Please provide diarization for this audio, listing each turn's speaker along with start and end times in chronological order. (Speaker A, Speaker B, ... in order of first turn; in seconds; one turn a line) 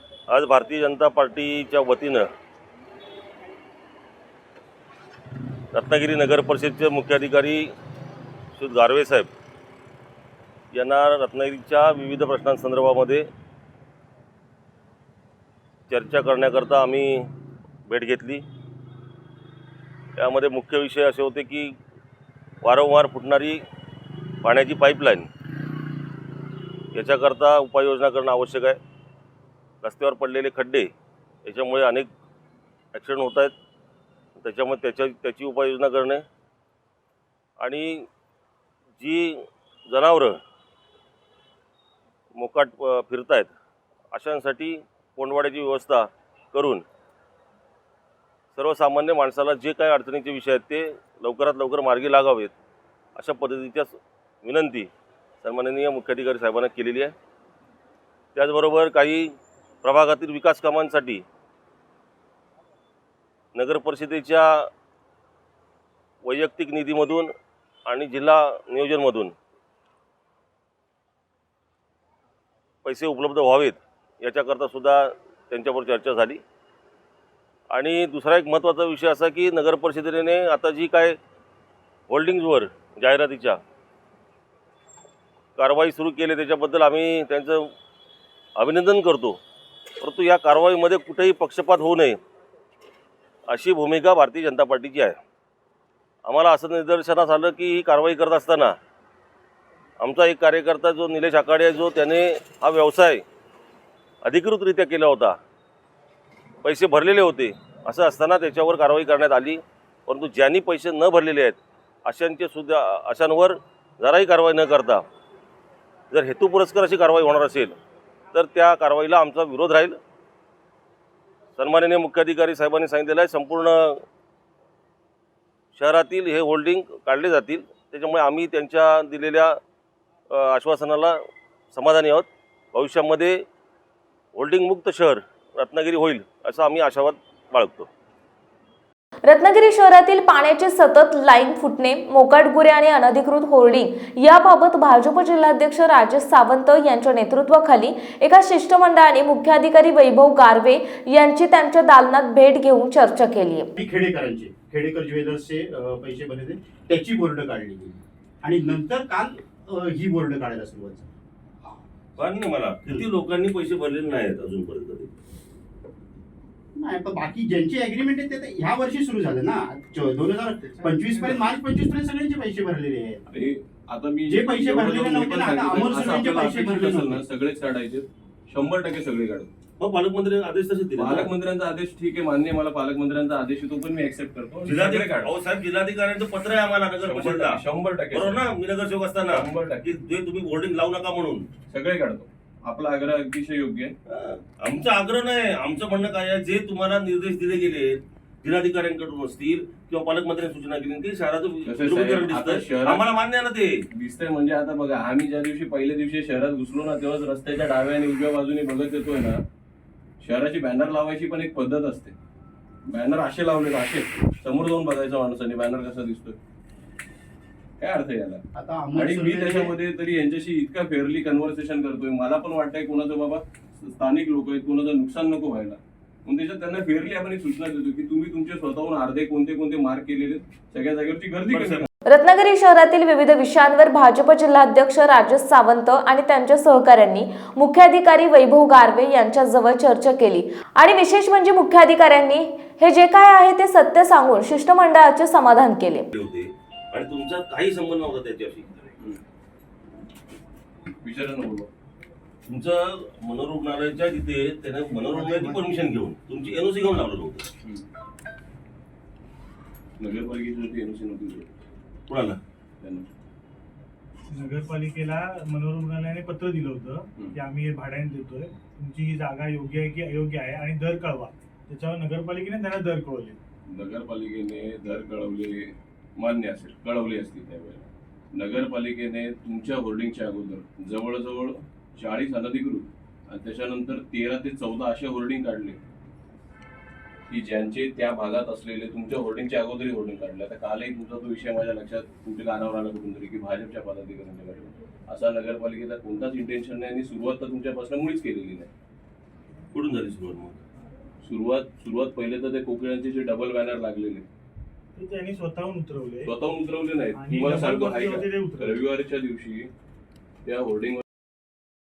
Speaker A: 0.3-2.2
Speaker A: 5.7-7.7
Speaker A: 8.6-9.3
Speaker A: 10.7-13.2
Speaker A: 15.9-17.3
Speaker A: 17.9-18.4
Speaker A: 20.2-21.8
Speaker A: 22.6-23.6
Speaker A: 24.4-25.3
Speaker A: 26.9-28.8
Speaker A: 29.8-30.9
Speaker A: 31.4-32.1
Speaker A: 32.9-33.5
Speaker A: 34.4-36.2
Speaker A: 37.6-38.1
Speaker A: 39.0-40.4
Speaker A: 42.4-43.5
Speaker A: 44.1-46.8
Speaker A: 48.5-52.5
Speaker A: 53.2-54.9
Speaker A: 55.4-57.1
Speaker A: 58.3-61.2
Speaker A: 63.5-64.7
Speaker A: 66.2-67.3
Speaker A: 67.9-69.3
Speaker A: 72.8-76.4
Speaker A: 77.7-81.2
Speaker A: 82.1-83.6
Speaker A: 85.6-87.7
Speaker A: 88.6-89.4
Speaker A: 90.0-92.2
Speaker A: 93.5-95.2
Speaker A: 96.3-98.8
Speaker A: 100.0-103.2
Speaker A: 104.2-105.4
Speaker A: 106.6-115.0
Speaker A: 116.1-117.7
Speaker A: 118.3-120.0
Speaker A: 121.6-124.0
Speaker A: 125.8-129.6
Speaker A: 130.3-131.2
Speaker A: 131.7-133.4
Speaker A: 134.3-137.9
Speaker B: 139.2-153.7
Speaker C: 153.8-161.1
Speaker A: 162.2-165.1
Speaker C: 166.7-173.2
Speaker D: 173.3-179.5
Speaker C: 174.3-177.2
Speaker A: 179.8-181.3
Speaker D: 181.0-185.3
Speaker A: 184.6-187.6
Speaker D: 187.0-188.4
Speaker A: 188.1-191.5
Speaker D: 189.3-190.0
Speaker D: 191.7-193.9
Speaker A: 194.1-203.8
Speaker D: 201.7-203.1
Speaker D: 203.9-209.4
Speaker D: 210.2-212.2
Speaker D: 212.8-216.3
Speaker D: 217.8-218.4
Speaker C: 218.5-219.7
Speaker D: 219.0-231.9
Speaker A: 231.5-231.9
Speaker B: 232.1-246.1
Speaker A: 246.1-248.8
Speaker D: 251.0-251.7
Speaker A: 252.5-257.5
Speaker C: 255.1-255.8
Speaker D: 260.0-261.5
Speaker A: 262.1-262.4
Speaker D: 262.8-263.1
Speaker E: 264.3-273.4
Speaker D: 273.7-285.8
Speaker D: 287.3-298.7
Speaker A: 299.7-300.6
Speaker D: 301.2-304.2
Speaker E: 304.9-306.3
Speaker D: 306.2-309.7
Speaker E: 307.1-308.8
Speaker D: 310.4-311.0